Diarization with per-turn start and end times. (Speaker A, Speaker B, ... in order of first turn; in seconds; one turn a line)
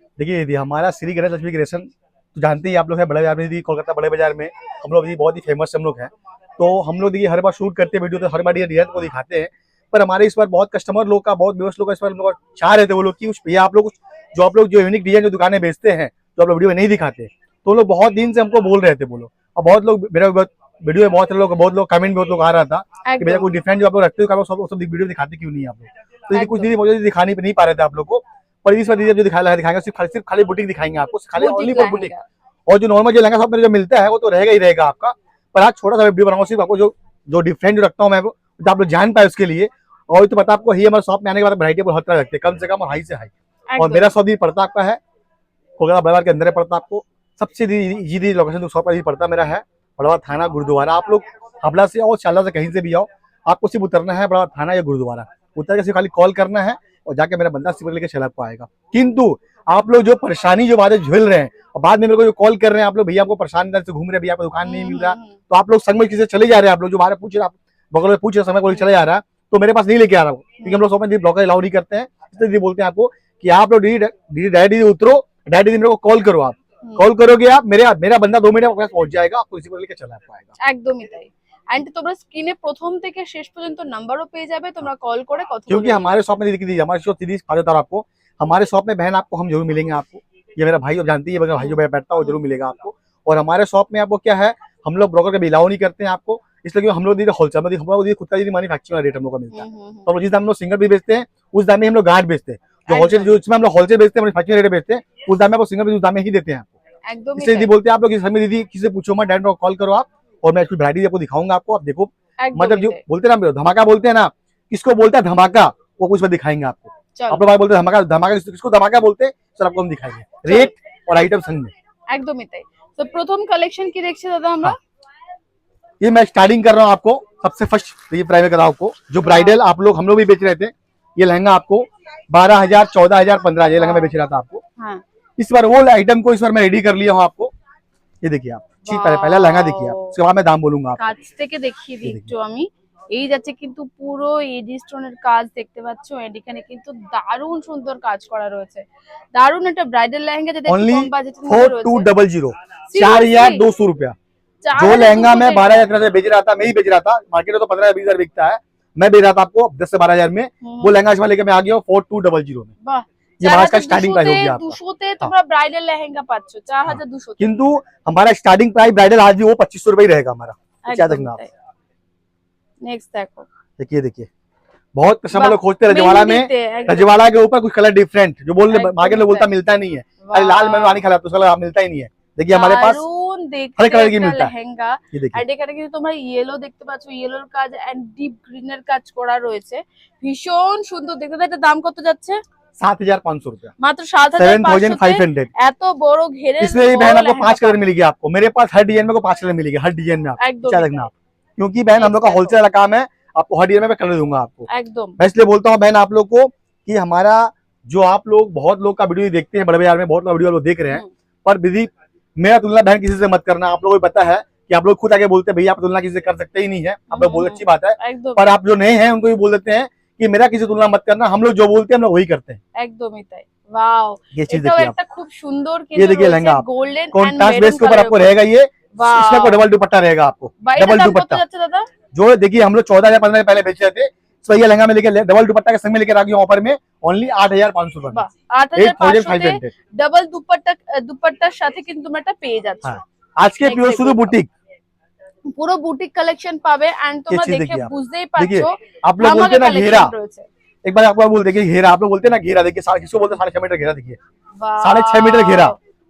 Speaker A: 0.2-32.1
Speaker B: 23.1-23.5
Speaker B: 26.3-26.7
Speaker B: 31.4-32.2
Speaker A: 32.7-45.0
Speaker B: 43.7-44.1
Speaker A: 45.8-80.5
Speaker B: 64.6-65.3
Speaker B: 70.6-70.9
Speaker B: 80.6-86.1
Speaker A: 85.7-106.7
Speaker B: 91.6-92.4
Speaker B: 99.5-100.1
Speaker B: 102.9-103.3
Speaker B: 107.1-107.7
Speaker A: 107.4-121.7
Speaker B: 112.4-113.0
Speaker B: 117.2-117.4
Speaker B: 120.5-120.7
Speaker B: 122.1-124.8
Speaker A: 126.0-134.6
Speaker B: 129.2-129.6
Speaker B: 133.8-134.1
Speaker A: 135.4-137.5
Speaker A: 138.2-141.1
Speaker B: 138.8-140.2
Speaker B: 141.0-152.1
Speaker A: 142.0-142.3
Speaker A: 150.7-154.2
Speaker B: 152.9-153.6
Speaker B: 154.7-155.9
Speaker A: 154.8-162.7
Speaker B: 160.6-161.0
Speaker B: 162.8-167.5
Speaker A: 163.4-165.3
Speaker A: 166.9-171.4
Speaker B: 170.8-171.5
Speaker B: 172.8-173.5
Speaker A: 173.8-174.3
Speaker A: 174.9-183.0
Speaker B: 175.3-177.2
Speaker B: 178.7-179.5
Speaker B: 180.2-181.0
Speaker B: 182.5-192.4
Speaker A: 183.8-184.5
Speaker A: 185.1-185.4
Speaker A: 192.8-193.7
Speaker B: 193.8-197.8
Speaker A: 194.4-195.5
Speaker A: 196.6-204.7
Speaker B: 200.4-201.0
Speaker B: 202.0-202.6
Speaker B: 204.7-205.2
Speaker A: 205.2-222.6
Speaker B: 217.1-218.5
Speaker B: 222.8-228.4
Speaker A: 224.3-224.9
Speaker A: 226.0-231.4
Speaker B: 229.0-229.6
Speaker B: 230.6-231.9
Speaker A: 232.1-238.2
Speaker B: 238.1-243.0
Speaker A: 238.8-239.7
Speaker A: 242.8-244.5
Speaker B: 243.6-244.3
Speaker B: 245.5-250.5
Speaker A: 247.3-250.1
Speaker A: 250.8-254.2
Speaker B: 254.6-255.8
Speaker A: 254.8-255.8